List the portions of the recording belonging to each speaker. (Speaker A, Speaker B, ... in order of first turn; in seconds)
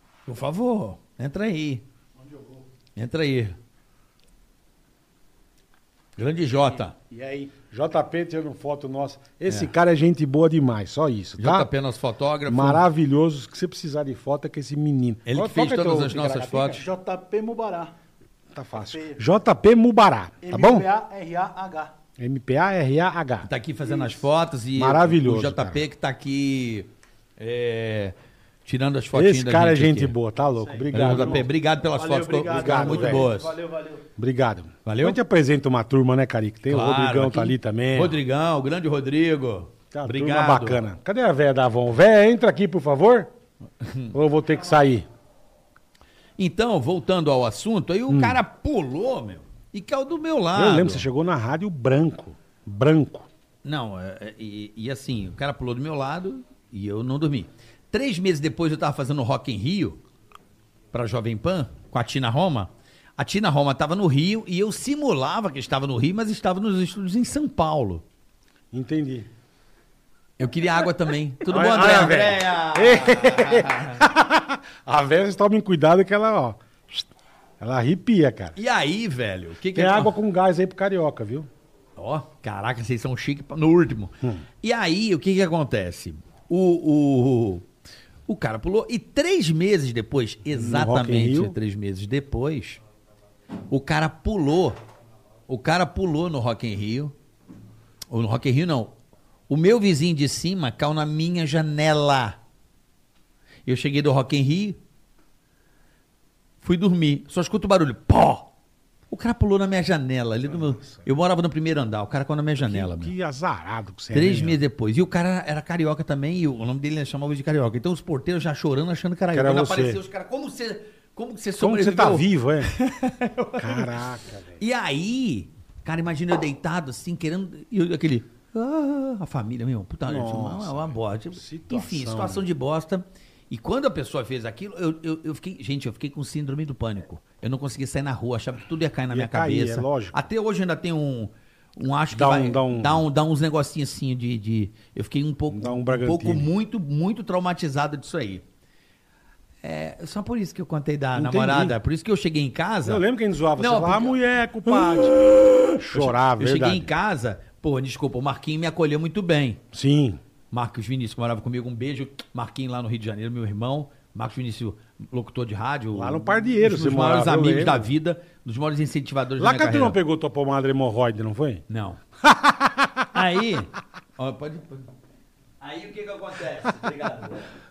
Speaker A: 0.2-1.8, 2.9-3.6, 6.2-7.0, 11.4-12.8, 15.2-16.8, 23.4-30.1, 30.9-33.5, 34.8-35.2, 36.7-40.8, 43.8-44.1, 46.4-51.1, 53.6-60.0, 60.9-68.0, 70.4-74.0, 78.5-80.2, 82.0-87.7, 88.3-92.8, 93.7-94.8, 95.5-97.1, 98.1-98.9, 99.5-102.4, 103.7-104.8, 106.6-108.5, 109.1-113.1, 114.1-124.0, 124.6-148.4, 149.6-153.0, 153.6-159.6, 160.5-170.0, 171.7-172.0, 173.1-174.9, 175.6-177.6
Speaker B: 7.1-11.7, 12.5-16.8, 18.5-20.9, 22.2-24.2, 24.7-25.8, 29.1-31.4, 32.5-33.3, 34.1-38.2, 39.9-43.3, 44.1-45.1, 48.1-48.4, 50.5-53.3, 68.7-69.3, 71.5-77.1, 77.6-78.5, 79.7-81.5, 90.5-91.5, 110.5-111.0, 112.6-114.6, 119.3-120.0, 121.6-122.7, 123.6-124.6, 130.1-132.4, 139.1-140.2, 142.1-143.0, 145.5-146.5, 151.1-151.8, 152.8-156.9, 159.7-160.2, 165.9-167.9, 169.4-171.6, 172.2-173.1
Speaker C: 16.7-17.9, 18.8-19.2, 20.4-21.9, 30.6-34.0